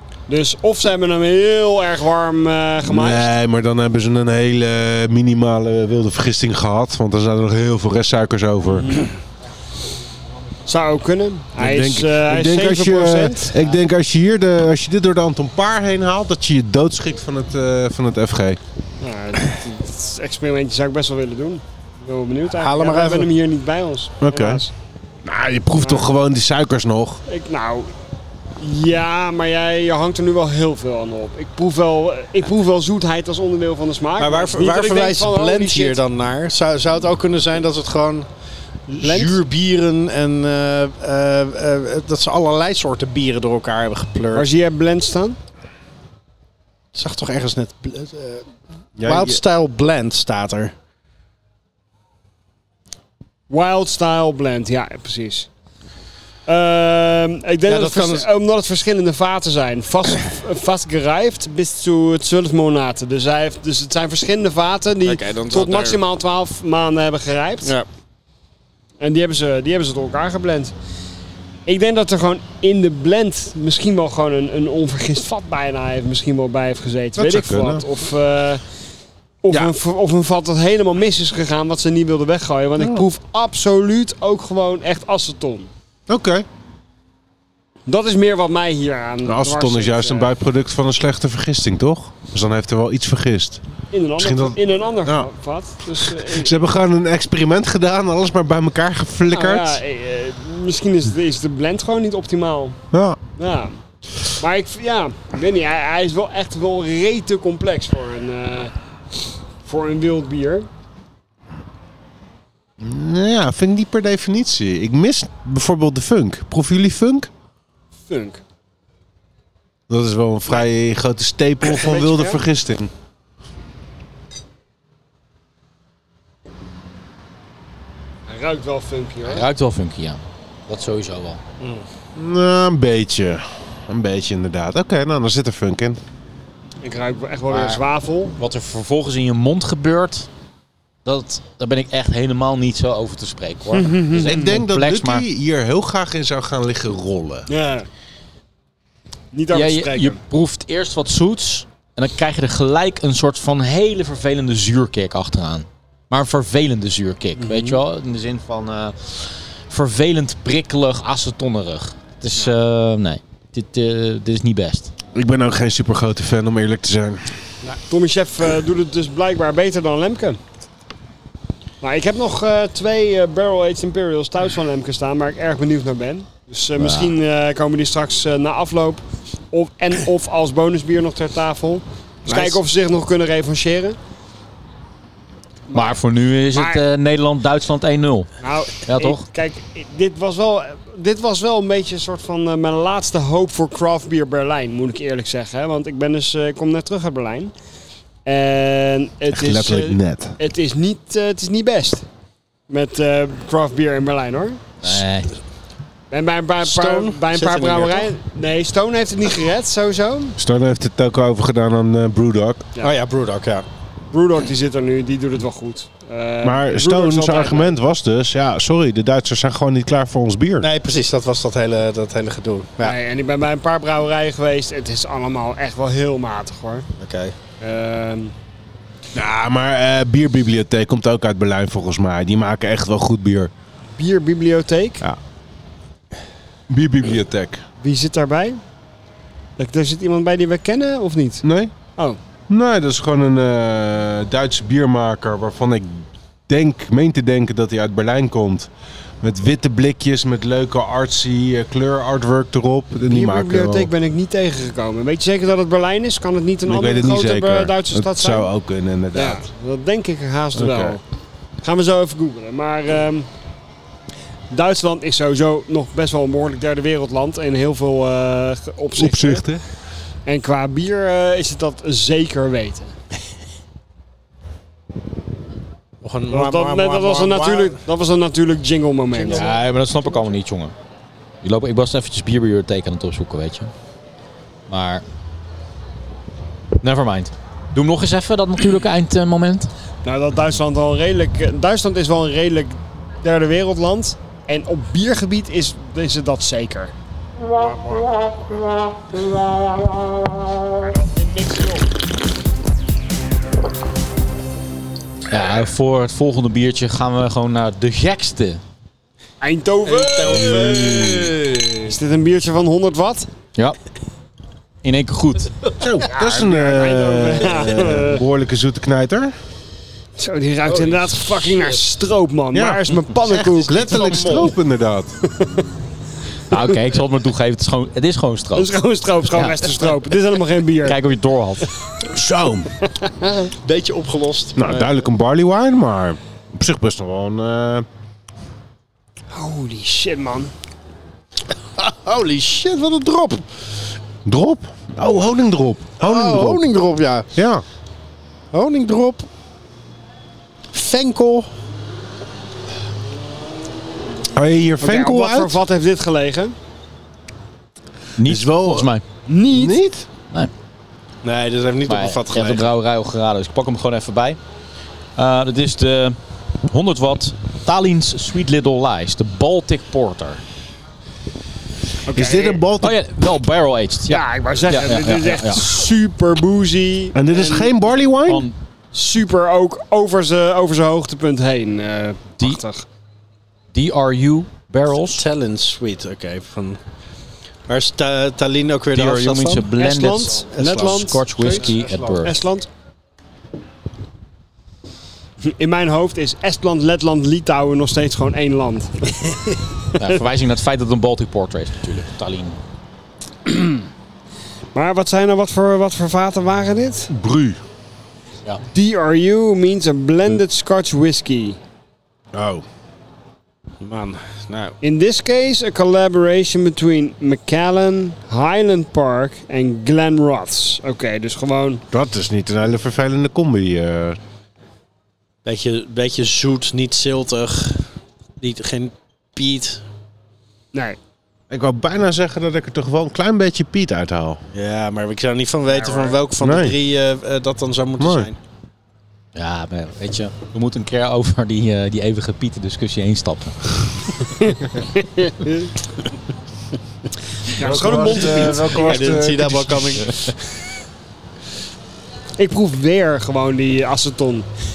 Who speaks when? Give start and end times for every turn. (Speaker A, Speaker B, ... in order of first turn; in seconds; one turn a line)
Speaker A: 0.3-3.3
Speaker B: 2.9-9.1
Speaker A: 8.8-9.1
Speaker A: 10.7-13.6
Speaker B: 11.6-18.6
Speaker A: 19.0-24.7
Speaker C: 22.6-23.3
Speaker B: 24.2-24.6
Speaker B: 25.2-27.2
Speaker A: 25.8-26.1
Speaker A: 27.3-27.9
Speaker A: 28.6-36.0
Speaker C: 34.2-38.3
Speaker A: 38.9-39.4
Speaker C: 39.0-44.5
Speaker A: 44.3-45.4
Speaker C: 46.9-48.5
Speaker B: 49.0-49.4
Speaker C: 49.0-50.7
Speaker A: 53.5-55.5
Speaker A: 56.5-67.7
Speaker C: 57.7-58.3
Speaker C: 65.0-66.0
Speaker A: 69.0-70.7
Speaker A: 71.7-78.6
Speaker B: 77.2-77.8
Speaker A: 79.4-85.7
Speaker B: 82.8-83.0
Speaker B: 86.1-86.5
Speaker A: 87.9-90.3
Speaker B: 89.2-93.6
Speaker A: 93.9-96.6
Speaker B: 94.2-95.3
Speaker B: 96.0-99.8
Speaker A: 99.3-102.8
Speaker B: 102.9-103.2
Speaker A: 103.4-103.8
Speaker A: 104.3-108.7
Speaker A: 109.6-110.7
Speaker B: 112.8-117.3
Speaker A: 118.1-118.4
Speaker B: 119.9-122.9
Speaker A: 121.7-122.4
Speaker A: 128.3-129.4
Speaker D: 129.2-131.4
Speaker B: 132.2-136.0
Speaker A: 136.8-138.3
Speaker D: 137.5-137.8
Speaker D: 138.4-140.3
Speaker D: 141.1-145.3
Speaker A: 143.7-144.6
Speaker B: 144.2-147.5
Speaker A: 147.5-147.9
Speaker A: 149.3-150.2
Speaker D: 149.5-164.9
Speaker A: 157.4-157.8
Speaker B: 165.1-167.2
Speaker A: 167.9-170.4
Speaker A: 171.8-184.0
Speaker D: 176.8-177.2
Speaker C: 182.3-182.6
Speaker A: 185.7-186.0
Speaker D: 185.7-188.3
Speaker A: 186.5-186.8
Speaker A: 188.4-197.5
Speaker D: 188.8-189.2
Speaker A: 198.2-202.1
Speaker B: 199.3-200.4
Speaker A: 202.7-204.6
Speaker D: 204.8-205.3
Speaker A: 206.1-210.4
Speaker C: 206.6-208.1
Speaker B: 210.4-212.7
Speaker C: 212.8-213.7
Speaker A: 214.1-217.8
Speaker B: 216.4-220.7
Speaker C: 220.6-223.0
Speaker A: 222.8-226.9
Speaker C: 227.0-227.4
Speaker A: 227.6-228.3
Speaker B: 229.1-233.5
Speaker A: 234.0-235.0
Speaker B: 236.7-237.6
Speaker A: 237.8-238.6
Speaker A: 239.6-241.4
Speaker B: 241.4-241.7
Speaker B: 242.5-248.7
Speaker B: 249.2-253.9
Speaker A: 253.1-258.5
Speaker B: 256.6-259.4
Speaker A: 259.1-261.0
Speaker B: 260.6-261.0
Speaker A: 261.6-263.3
Speaker A: 264.5-269.5
Speaker B: 269.0-269.6
Speaker A: 270.3-272.9
Speaker C: 276.0-277.8
Speaker A: 276.3-279.5
Speaker C: 279.2-279.5
Speaker D: 279.3-280.7
Speaker D: 281.4-283.7
Speaker D: 284.7-285.1
Speaker D: 286.8-289.7
Speaker A: 290.0-296.9
Speaker A: 300.8-301.9
Speaker D: 305.3-308.6
Speaker A: 309.4-311.3
Speaker C: 309.9-311.9
Speaker A: 311.8-313.3
Speaker D: 314.8-315.5
Speaker B: 315.8-319.3
Speaker A: 316.1-318.2
Speaker A: 320.2-324.4
Speaker C: 320.7-321.8
Speaker B: 322.5-325.1
Speaker C: 323.5-324.5
Speaker D: 326.5-328.7
Speaker A: 328.6-331.0
Speaker D: 329.3-329.7
Speaker D: 330.8-331.7
Speaker B: 332.0-332.7
Speaker A: 333.0-333.4
Speaker C: 333.5-335.0
Speaker B: 334.6-337.9
Speaker A: 339.3-340.5
Speaker C: 341.8-343.5
Speaker B: 344.2-346.6
Speaker C: 346.0-347.3
Speaker B: 347.4-347.6
Speaker C: 348.5-349.3
Speaker C: 350.7-351.5
Speaker B: 354.3-355.6
Speaker A: 354.8-356.6
Speaker D: 358.2-359.0
Speaker B: 358.2-358.9
Speaker A: 359.3-359.8
Speaker B: 359.5-360.1
Speaker C: 361.2-362.7
Speaker D: 361.9-364.4
Speaker D: 365.2-366.2
Speaker D: 366.7-370.4
Speaker A: 372.1-372.6
Speaker B: 372.1-373.0
Speaker D: 372.8-375.7
Speaker A: 374.1-377.8
Speaker B: 377.1-378.5
Speaker D: 378.3-378.6
Speaker A: 378.9-382.9
Speaker D: 383.7-385.2
Speaker C: 385.1-386.8
Speaker C: 387.7-389.7
Speaker D: 388.9-392.4
Speaker A: 389.8-392.7
Speaker C: 390.4-392.2
Speaker A: 395.5-399.6
Speaker D: 400.0-402.6
Speaker A: 403.5-403.8
Speaker A: 404.8-407.1
Speaker B: 407.1-407.6
Speaker A: 408.7-411.6
Speaker B: 412.3-412.6
Speaker C: 413.8-414.8
Speaker A: 414.8-421.8
Speaker B: 421.9-424.2
Speaker C: 425.4-429.8
Speaker B: 431.5-434.4
Speaker C: 434.5-438.4
Speaker A: 435.7-436.2
Speaker B: 436.4-436.8
Speaker B: 438.0-438.3
Speaker D: 439.4-443.7
Speaker A: 444.5-445.7
Speaker A: 447.6-449.2
Speaker B: 447.6-450.1
Speaker C: 447.8-450.4
Speaker A: 452.4-454.5